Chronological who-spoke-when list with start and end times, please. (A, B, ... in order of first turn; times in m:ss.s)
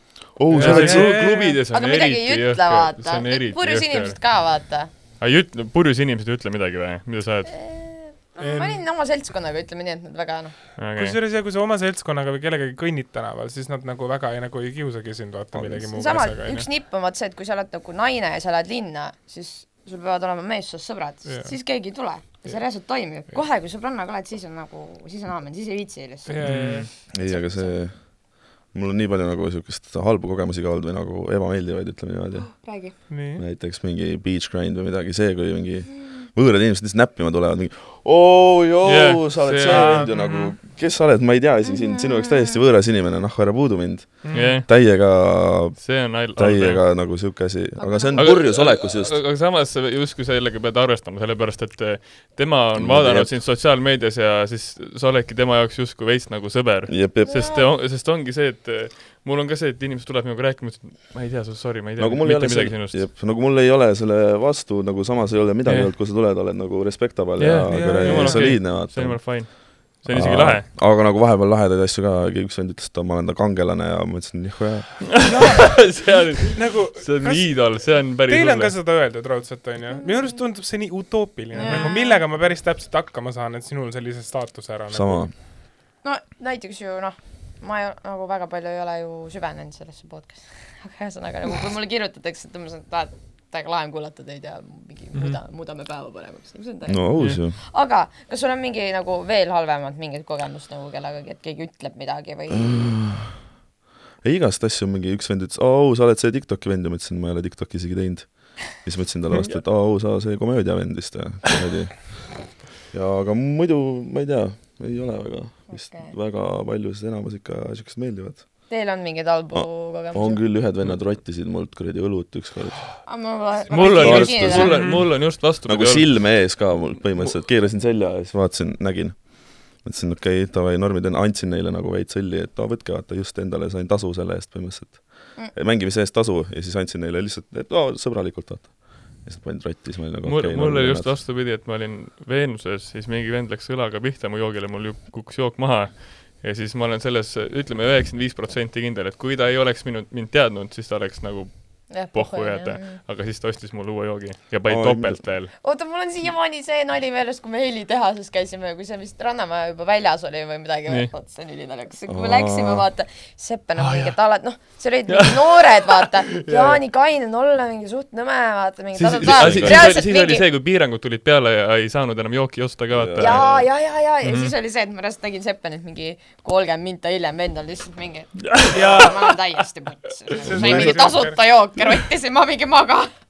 0:00.4-0:01.2 A
0:00.5-0:01.6 B
0:00.5-0:04.2 C
0:01.7-0:04.9 D
0:05.2-0:07.5 C
0:07.5-0:10.5 D
0:08.4-0:08.8 B
0:10.8-0:11.2 C
0:11.0-0:16.7 B
0:15.5-0:16.1 A
0:15.9-0:27.8 D
0:21.2-0:21.6 B
0:26.2-0:26.9 B
0:26.4-0:26.9 C
0:27.1-0:32.6 A
0:32.6-0:33.0 D
0:33.1-0:33.4 B
0:33.4-0:49.2 A
0:38.8-0:40.5 C
0:39.6-0:40.3 B
0:41.6-0:42.6 D
0:44.2-0:44.6 B
0:44.3-0:44.7 C
0:45.7-0:46.8 C
0:47.8-0:48.3 D
0:48.2-1:03.0 C
0:52.7-0:53.4 A
0:56.9-0:57.5 A
0:57.2-0:57.7 D
1:02.0-1:15.3 A
1:05.6-1:05.9 C
1:07.4-1:10.7 C
1:07.7-1:08.6 B
1:15.2-1:18.8 C
1:15.2-1:25.3 B
1:20.0-1:20.3 D
1:21.5-1:22.2 D
1:21.6-1:21.9 C
1:24.9-1:25.3 A
1:26.0-1:42.9 D
1:36.9-1:37.6 A
1:42.5-1:43.5 A
1:44.2-1:58.7 A
1:55.7-1:56.1 D
1:58.7-2:00.4 D
1:59.5-2:03.0 A
2:03.0-2:04.9 D
2:03.7-2:06.6 C
2:03.9-2:21.2 A
2:20.2-2:35.5 C
2:31.9-2:33.0 D
2:34.6-2:35.3 A
2:35.6-2:50.4 D
2:42.1-2:42.8 A
2:43.8-2:44.1 C
2:45.1-2:46.8 C
2:48.9-2:53.5 C
2:49.2-2:49.9 A
2:52.9-2:53.7 A
2:53.2-3:03.1 D
2:54.2-2:54.5 C
2:58.5-2:58.7 C
2:58.7-2:59.2 B
3:00.4-3:01.4 B
3:00.5-3:01.1 A